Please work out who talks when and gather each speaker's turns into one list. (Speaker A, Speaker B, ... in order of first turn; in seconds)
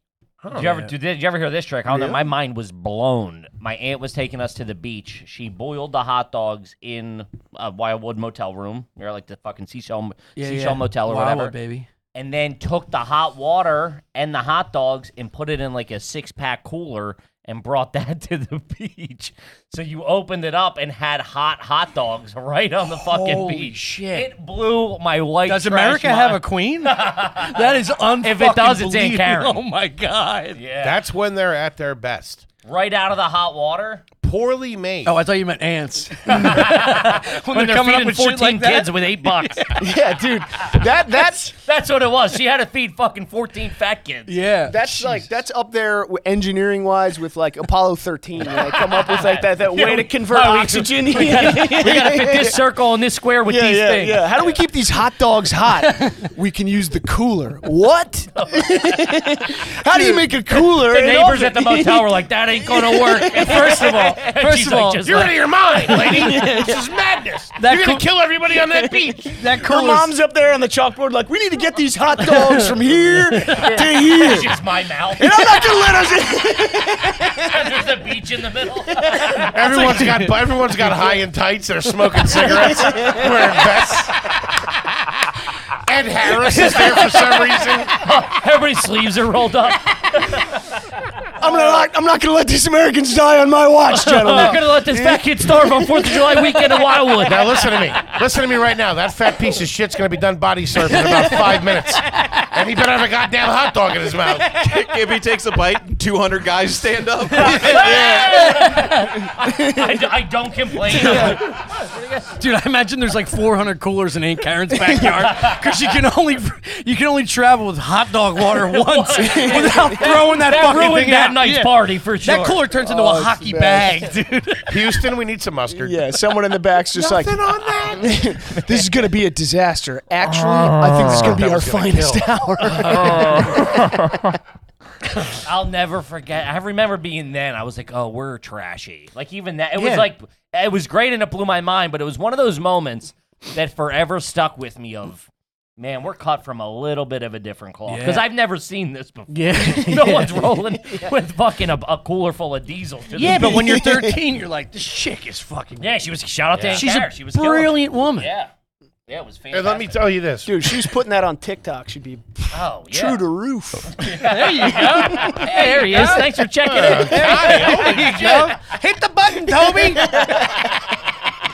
Speaker A: 0.4-0.7, 30.8-32.5, 34.2-35.2, 65.0-69.4, 79.4-84.2, 85.8-88.0, 97.2-104.7, 124.7-126.1, 126.9-128.3, 131.0-132.3, 156.5-156.9, 159.5-160.6, 166.7-168.5
Speaker B: 0.5-11.5, 12.2-29.6, 30.6-31.0, 32.6-34.0, 36.3-39.7, 41.6-44.3, 48.5-54.6, 58.4-59.2, 60.5-65.4, 73.6-75.9, 77.3-79.5, 86.6-90.5, 93.9-98.0, 107.4-112.4, 115.2-115.7, 118.5-122.6, 130.3-131.3, 132.8-133.7, 135.4-153.7, 155.8-158.5, 159.1-160.0, 162.5-163.2, 163.9-168.4
Speaker C: 0.6-0.9, 10.4-11.9, 22.9-24.3, 25.5-30.6, 35.1-39.9, 44.3-45.3, 63.3-65.3, 65.9-66.6, 67.6-68.1, 69.4-70.1, 72.2-73.8, 79.6-81.1, 100.9-102.5, 107.2-109.2, 110.8-111.6, 112.4-125.1, 132.7-133.7, 139.8-140.1, 147.9-148.2, 149.3-150.6, 153.1-156.0, 156.7-158.3, 164.0-170.5
Speaker D: 39.8-41.5, 44.7-52.6, 53.5-64.0, 66.1-66.8, 68.7-74.6, 75.2-77.6, 82.6-83.3, 91.4-96.5, 109.4-109.9, 111.0-111.4, 119.2-120.1, 122.8-124.0, 125.7-133.6, 153.6-154.2, 160.4-164.0, 164.8-165.6, 169.9-170.7
Speaker E: 104.6-108.2